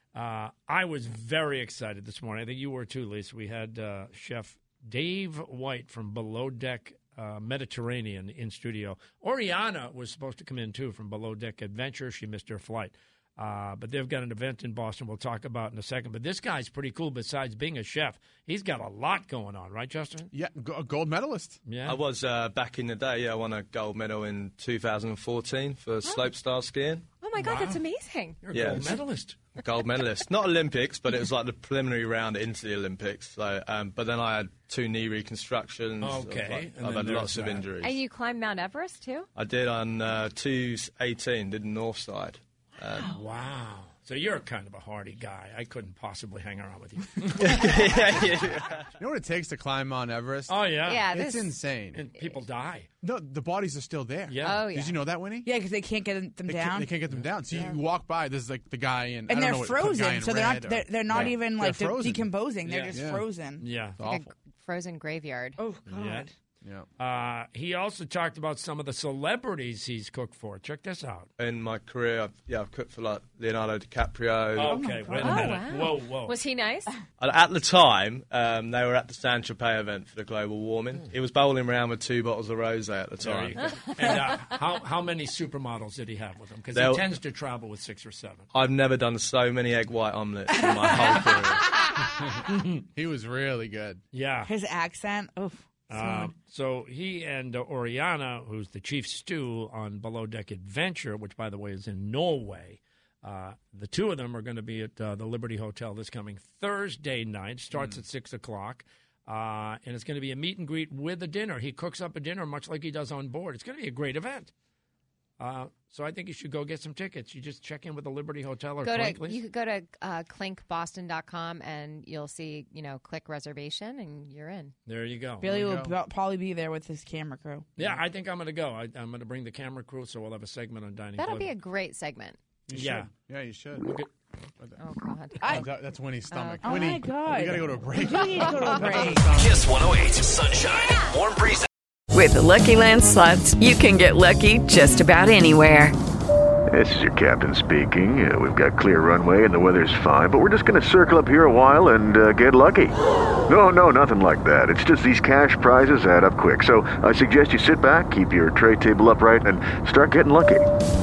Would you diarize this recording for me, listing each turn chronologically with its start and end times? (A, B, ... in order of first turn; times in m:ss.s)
0:00.1-0:20.3 A
0:20.3-0:21.6 B
0:21.6-0:22.0 A
0:21.8-0:27.0 C
0:26.0-0:26.3 D
0:27.2-0:28.4 D
0:27.4-0:27.8 A
0:28.4-0:29.4 A
0:28.5-0:29.0 C
0:29.6-0:38.0 C
0:36.0-0:37.7 A
0:37.8-0:39.2 D
0:39.4-0:43.1 C
0:43.1-0:48.3 A
0:47.4-0:48.8 C
0:49.0-0:52.0 B
0:50.5-0:51.1 A
0:50.8-0:51.5 D
0:51.9-0:52.9 A
0:53.0-0:55.5 B
0:54.3-0:54.6 A
0:54.4-0:55.0 D
0:55.4-0:56.9 E
0:56.5-1:02.3 B
0:59.3-1:03.6 E
1:02.6-1:03.0 A
1:02.9-1:03.2 B
1:03.6-1:04.0 A
1:04.0-1:04.3 B
1:04.0-1:05.6 D
1:05.6-1:06.3 E
1:05.9-1:06.3 A
1:07.0-1:11.3 A
1:11.4-1:14.8 C
1:14.5-1:16.4 A
1:14.6-1:15.6 E
1:15.2-1:16.9 D
1:17.2-1:23.6 C
1:23.2-1:28.5 A
1:23.9-1:24.2 D
1:26.7-1:27.1 C
1:28.5-1:31.7 C
1:30.5-1:31.3 E
1:32.5-1:32.8 A
1:32.9-1:34.0 B
1:34.1-1:34.5 A
1:34.4-1:36.3 E
1:35.9-1:54.5 A
1:47.7-1:48.0 B
1:55.4-1:59.4 A
1:58.8-2:04.7 D
2:04.9-2:05.6 A
2:05.4-2:07.7 E
2:05.5-2:05.9 B
2:07.8-2:11.5 A
2:11.2-2:12.4 D
2:12.7-2:14.0 B
2:12.7-2:13.1 A
2:13.8-2:14.1 A
2:14.8-2:15.7 D
2:15.5-2:19.6 B
2:16.3-2:16.9 D
2:16.6-2:19.3 E
2:19.3-2:21.7 F
2:22.1-2:25.9 G
2:26.7-2:32.9 H
2:33.5-2:40.6 H